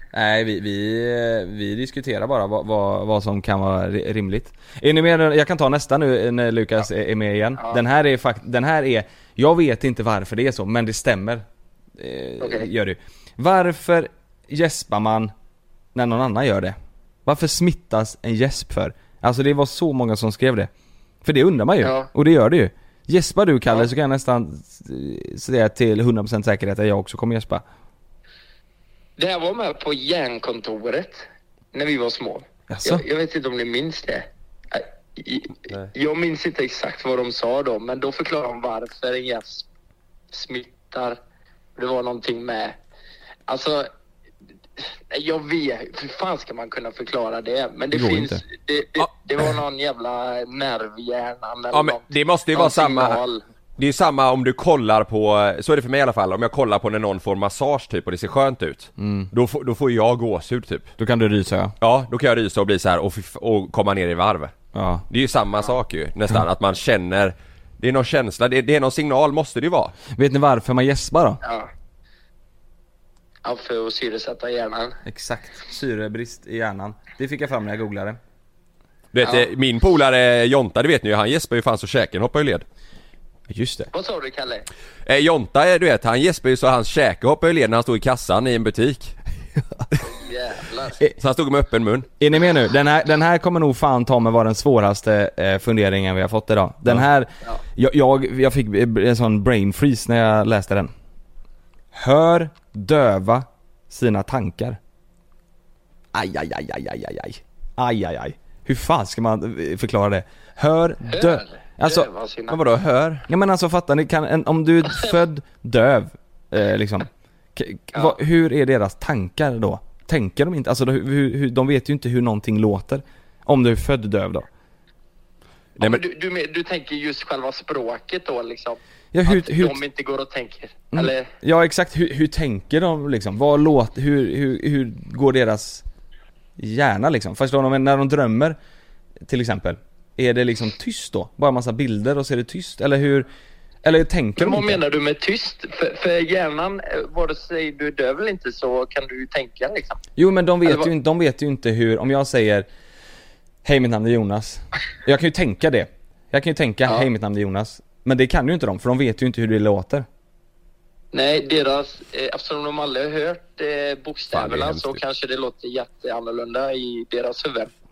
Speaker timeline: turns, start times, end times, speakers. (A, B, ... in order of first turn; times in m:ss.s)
0:00.1-0:11.4 A
0:12.0-0:15.3 A
0:12.4-0:12.7 B
0:15.9-0:20.7 A
0:21.2-0:27.6 A
0:21.8-0:22.1 B
0:29.2-0:39.7 B
0:32.7-0:33.0 A
0:40.3-0:41.2 B
0:41.8-0:42.8 B
0:43.5-0:43.9 B
0:44.8-0:53.4 B
0:47.9-0:48.4 A
0:51.7-0:53.2 C
0:53.8-1:00.9 C
0:59.0-0:59.3 A
1:01.0-1:01.8 A
1:01.8-1:04.5 C
1:04.7-1:05.0 A
1:05.1-1:09.9 C
1:10.1-1:11.4 A
1:11.4-1:11.7 B
1:13.4-1:15.0 B
1:15.1-1:18.2 A
1:19.1-1:22.6 C
1:23.5-1:23.9 A
1:23.9-1:24.7 B
1:25.1-1:29.1 C
1:29.6-1:29.9 A
1:30.0-1:31.0 B
1:31.2-1:32.1 C
1:32.2-1:40.9 A
1:41.9-1:44.8 A
1:46.1-1:52.1 A
1:51.1-1:52.6 B
1:52.5-1:53.3 C
1:53.3-2:04.5 A
2:05.8-2:11.3 B
2:09.1-2:09.8 A
2:10.9-2:15.8 A
2:16.6-2:18.6 A
2:19.2-2:23.3 A
2:23.8-2:24.8 A
2:24.4-2:30.0 B
2:30.2-2:32.7 A
2:33.6-2:40.1 A
2:41.1-2:47.7 B
2:44.3-2:45.0 C